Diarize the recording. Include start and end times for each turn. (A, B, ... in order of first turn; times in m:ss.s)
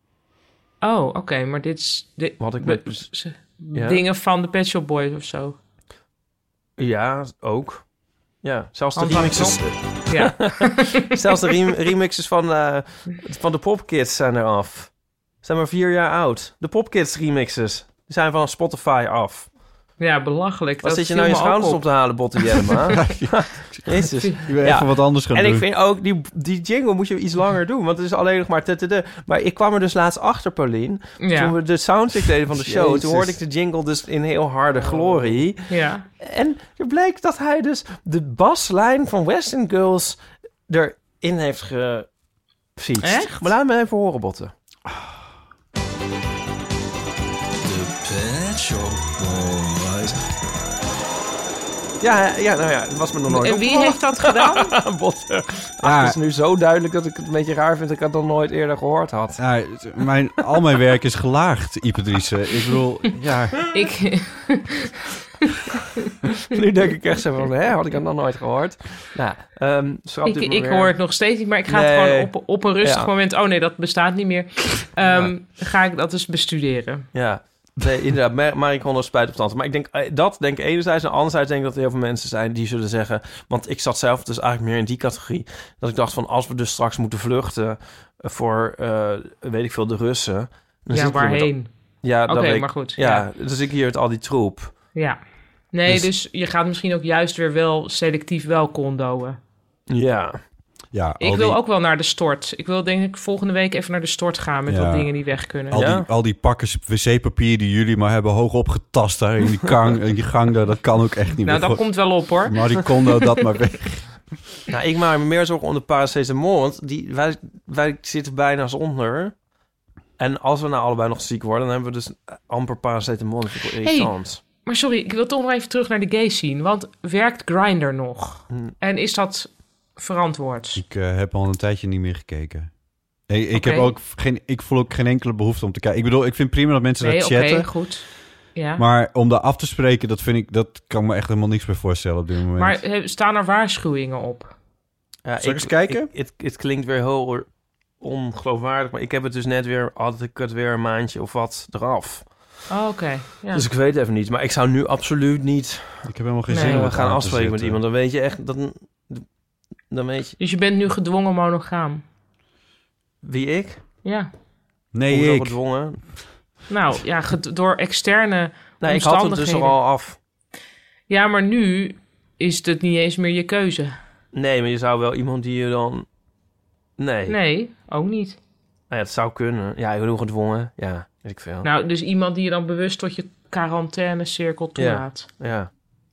0:00.8-0:05.6 A
0:02.4-0:03.2 B
0:03.7-0:04.0 B
0:06.8-0:07.9 B
0:08.4-0:19.5 B
0:09.0-0:11.1 A
0:20.0-0:22.7 A
0:20.8-0:42.1 B
0:23.0-0:25.6 C
0:31.2-0:31.5 A
0:32.5-0:33.4 C
0:34.8-0:36.0 A
0:42.8-0:44.5 B
0:43.0-0:43.5 A
0:47.6-0:50.2 B
0:49.2-0:49.5 C
0:52.0-0:59.4 B
0:53.3-0:54.7 A
0:55.8-0:56.2 C
0:59.4-1:03.6 C
1:03.7-1:04.9 A
1:06.5-1:11.0 B
1:10.2-1:17.1 A
1:11.7-1:13.1 B
1:15.0-1:15.3 B
1:17.1-1:34.8 B
1:30.9-1:31.7 A
1:32.2-1:33.3 A
1:34.9-1:35.2 A
1:35.7-1:39.4 A
1:39.9-1:40.4 B
1:40.9-1:41.6 C
1:41.2-1:45.8 A
1:44.7-1:54.3 C
1:45.7-1:46.1 B
1:51.4-1:53.3 A
1:54.7-1:59.3 B
2:00.2-2:04.4 B
2:03.8-2:10.8 A
2:10.7-2:18.0 C
2:13.5-2:13.9 A
2:17.0-2:18.8 A
2:18.8-2:22.8 C
2:22.6-2:24.5 A
2:25.2-2:32.5 B
2:25.4-2:26.1 C
2:32.7-2:33.6 A
2:33.5-2:39.2 B
2:36.0-2:37.8 C
2:36.5-2:36.8 A
2:39.9-2:40.4 B
2:40.4-2:42.0 A
2:43.2-2:43.8 B
2:44.0-2:44.3 A
2:44.9-2:45.6 C
2:45.1-2:46.0 B
2:46.7-2:49.8 A
2:48.8-2:50.2 B
2:51.1-2:54.0 A
2:54.3-2:56.0 B
2:57.0-2:57.4 B
2:57.3-2:58.4 A
2:58.9-3:01.7 B
3:01.6-3:05.3 A
3:04.8-3:05.7 B